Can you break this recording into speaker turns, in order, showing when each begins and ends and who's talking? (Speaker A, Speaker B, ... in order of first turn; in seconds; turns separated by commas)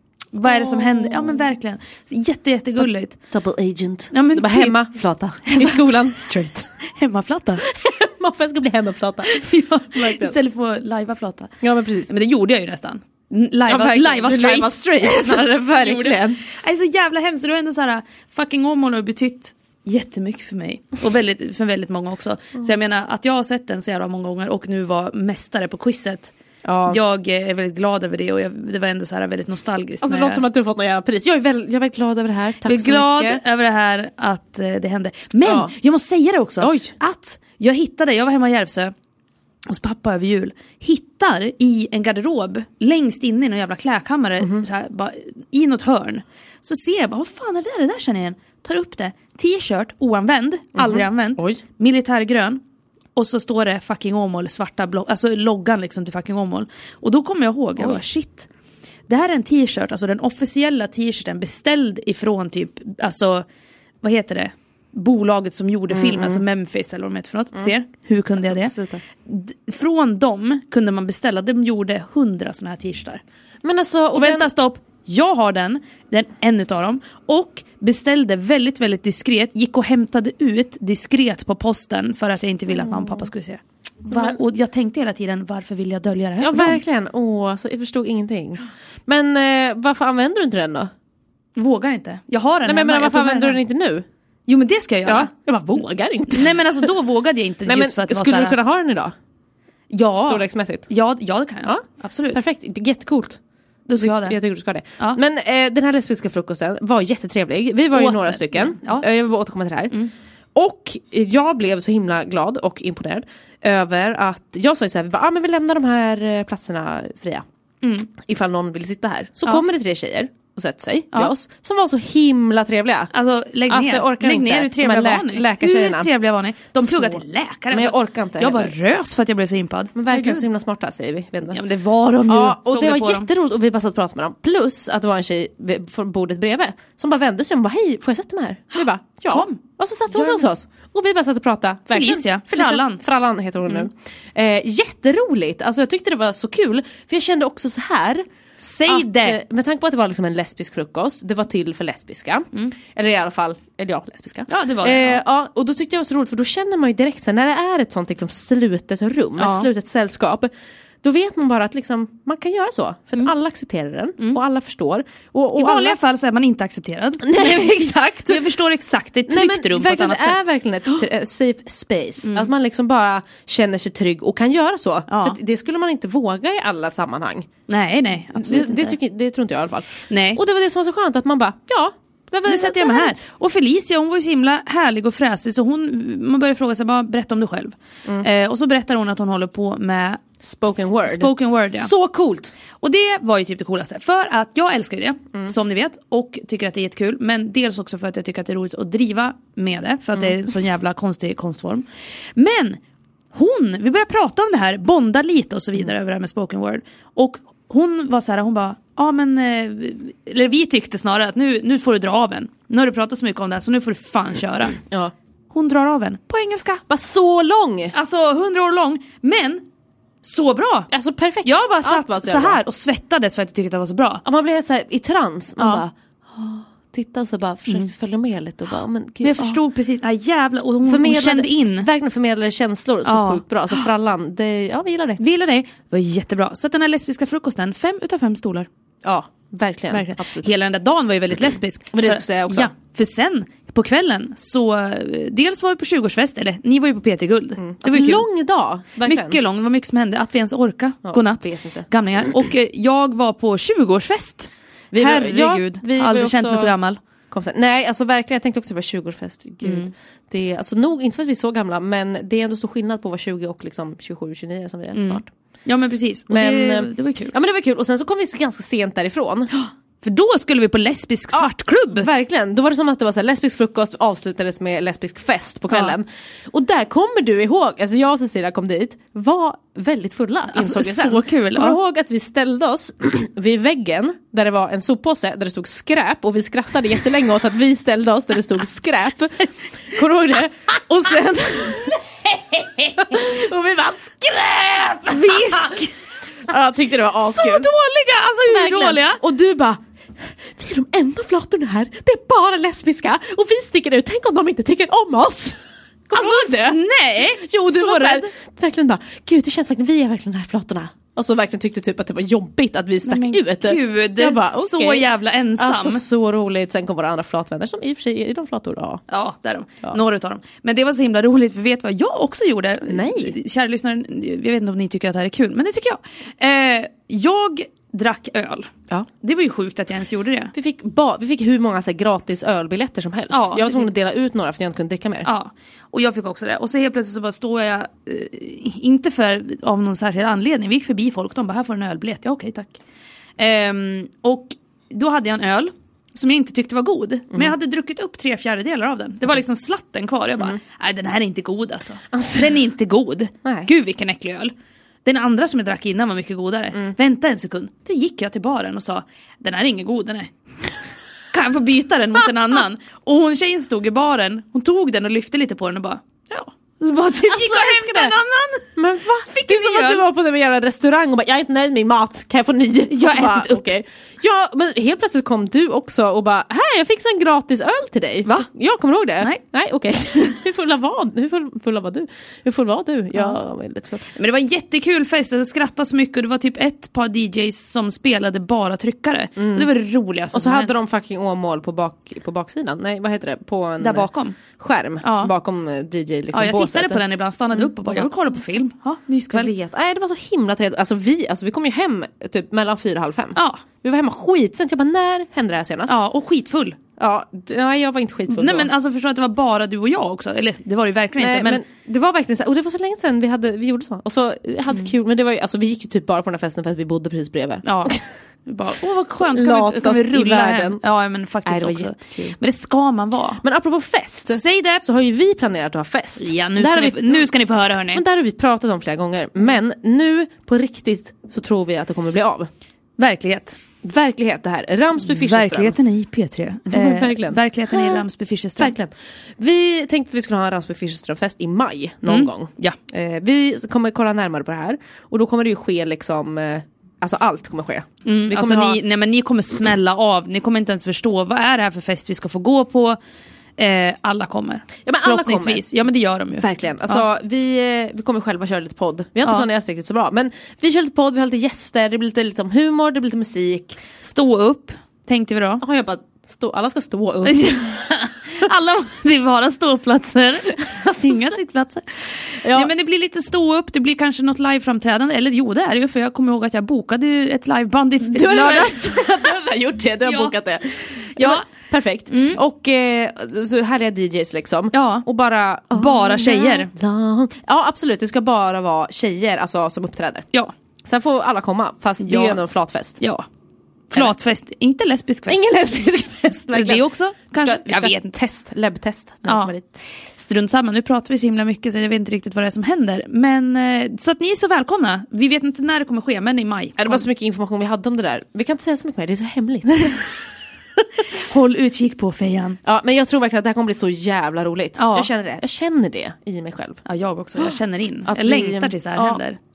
Speaker A: 0.3-3.2, Speaker B: 0.4-1.5, Speaker B: 3.3-6.7, Speaker A: 4.1-4.8, Speaker A: 5.4-5.8, Speaker A: 6.8-7.7, Speaker B: 7.6-10.3, Speaker A: 9.2-11.5, Speaker B: 11.6-12.1, Speaker A: 12.1-26.3, Speaker B: 13.7-16.4, Speaker B: 26.6-27.0, Speaker A: 26.9-30.4, Speaker B: 30.0-33.4, Speaker A: 32.6-38.9, Speaker B: 35.4-35.7, Speaker B: 36.6-36.9, Speaker A: 39.7-52.6, Speaker B: 50.8-51.6, Speaker A: 53.1-58.5, Speaker A: 59.1-63.4, Speaker A: 64.0-68.7, Speaker B: 65.9-66.4, Speaker B: 68.4-69.0, Speaker A: 69.2-73.2, Speaker B: 73.6-74.5, Speaker A: 74.1-86.8, Speaker B: 82.7-83.3, Speaker B: 84.1-84.3, Speaker B: 86.4-90.9, Speaker A: 91.5-93.6, Speaker B: 92.7-94.0, Speaker A: 94.5-95.3, Speaker B: 95.0-96.9, Speaker A: 96.3-98.5, Speaker B: 97.7-99.1, Speaker A: 99.9-102.4, Speaker B: 100.2-100.9, Speaker B: 101.6-103.4, Speaker A: 103.9-104.4, Speaker B: 104.0-110.0, Speaker A: 107.9-109.0, Speaker B: 110.5-117.4, Speaker A: 117.8-118.1, Speaker B: 118.2-123.1, Speaker A: 123.1-130.4, Speaker B: 123.7-126.1, Speaker B: 126.8-128.7, Speaker B: 129.9-131.6, Speaker A: 131.5-133.3, Speaker B: 132.3-148.2, Speaker A: 139.3-139.6, Speaker A: 140.1-140.5, Speaker A: 141.9-143.0, Speaker A: 148.6-149.4, Speaker B: 148.9-160.5, Speaker A: 154.5-155.2, Speaker A: 159.4-159.7, Speaker B: 161.0-166.0, Speaker A: 165.5-171.0, Speaker B: 167.2-168.4, Speaker B: 169.3-177.5, Speaker A: 172.2-172.5, Speaker A: 175.1-175.4, Speaker A: 177.7-179.0, Speaker B: 178.3-183.2, Speaker A: 180.1-180.4, Speaker A: 182.4-191.9, Speaker B: 190.4-192.5, Speaker A: 192.8-202.8, Speaker A: 203.3-214.8, Speaker B: 214.8-215.1, Speaker A: 215.5-216.8, Speaker B: 216.9-217.9, Speaker A: 217.9-219.7, Speaker A: 220.2-220.9, Speaker B: 220.9-222.6, Speaker A: 221.4-224.2, Speaker B: 224.2-229.6, Speaker A: 225.6-225.8, Speaker A: 229.2-231.9, Speaker B: 230.8-235.2, Speaker A: 233.0-233.8, Speaker A: 235.2-238.7, Speaker B: 239.0-240.5, Speaker A: 239.9-248.2, Speaker B: 241.9-242.7, Speaker B: 247.6-249.4, Speaker A: 249.0-257.0, Speaker B: 251.0-251.9, Speaker B: 254.9-256.7, Speaker B: 257.3-265.3, Speaker A: 259.6-259.9, Speaker A: 264.9-267.3, Speaker B: 266.3-269.5, Speaker A: 269.5-272.1, Speaker B: 271.3-292.0, Speaker A: 275.7-275.9, Speaker A: 280.5-281.8, Speaker A: 292.2-293.2, Speaker B: 292.9-295.8, Speaker A: 295.1-295.9, Speaker B: 296.5-297.7, Speaker A: 297.2-299.2, Speaker B: 298.5-306.8, Speaker A: 306.1-308.3, Speaker B: 307.4-315.1, Speaker A: 313.0-316.0, Speaker B: 315.6-319.0, Speaker A: 319.1-330.5, Speaker B: 322.9-323.3, Speaker B: 330.5-335.3, Speaker A: 333.3-333.9, Speaker A: 335.2-342.8, Speaker A: 343.4-354.5, Speaker B: 352.1-352.6, Speaker B: 353.4-353.7, Speaker A: 355.0-360.3, Speaker A: 361.3-370.0, Speaker B: 367.2-368.1, Speaker B: 368.8-384.1, Speaker A: 372.9-373.7, Speaker A: 384.1-390.8, Speaker B: 389.4-389.7, Speaker B: 390.3-398.1, Speaker A: 393.8-394.4, Speaker A: 395.0-395.3, Speaker A: 396.3-399.5, Speaker B: 399.3-406.0, Speaker A: 403.4-403.6, Speaker A: 405.9-406.8, Speaker B: 407.0-408.7, Speaker A: 408.3-411.6, Speaker B: 411.2-418.1, Speaker A: 417.6-417.9, Speaker A: 418.4-423.4, Speaker B: 419.2-420.8, Speaker B: 421.4-422.4, Speaker B: 423.4-427.3, Speaker A: 424.3-424.8, Speaker A: 426.2-428.0, Speaker B: 427.9-432.5, Speaker A: 433.0-433.6, Speaker B: 433.8-435.8, Speaker A: 435.0-438.7, Speaker B: 436.7-438.0, Speaker B: 438.6-448.8, Speaker A: 442.1-442.8, Speaker A: 448.0-453.0, Speaker A: 453.6-457.0, Speaker B: 454.9-455.6, Speaker B: 456.4-463.8, Speaker A: 464.0-465.6, Speaker B: 465.6-467.5, Speaker A: 467.2-479.0, Speaker B: 470.5-471.4, Speaker B: 472.4-472.7, Speaker B: 478.1-490.3, Speaker A: 480.0-480.3, Speaker A: 481.2-481.5, Speaker A: 482.1-482.4, Speaker A: 484.7-485.0, Speaker A: 485.7-486.7, Speaker B: 490.8-493.0, Speaker A: 492.0-492.4, Speaker A: 493.0-493.2, Speaker A: 493.9-495.4, Speaker B: 495.3-499.8, Speaker A: 496.5-498.1, Speaker A: 499.2-499.5, Speaker A: 500.1-507.0, Speaker B: 506.8-510.2, Speaker A: 511.1-512.6, Speaker B: 512.6-516.8, Speaker A: 514.8-515.1, Speaker A: 516.9-519.4, Speaker B: 518.1-519.2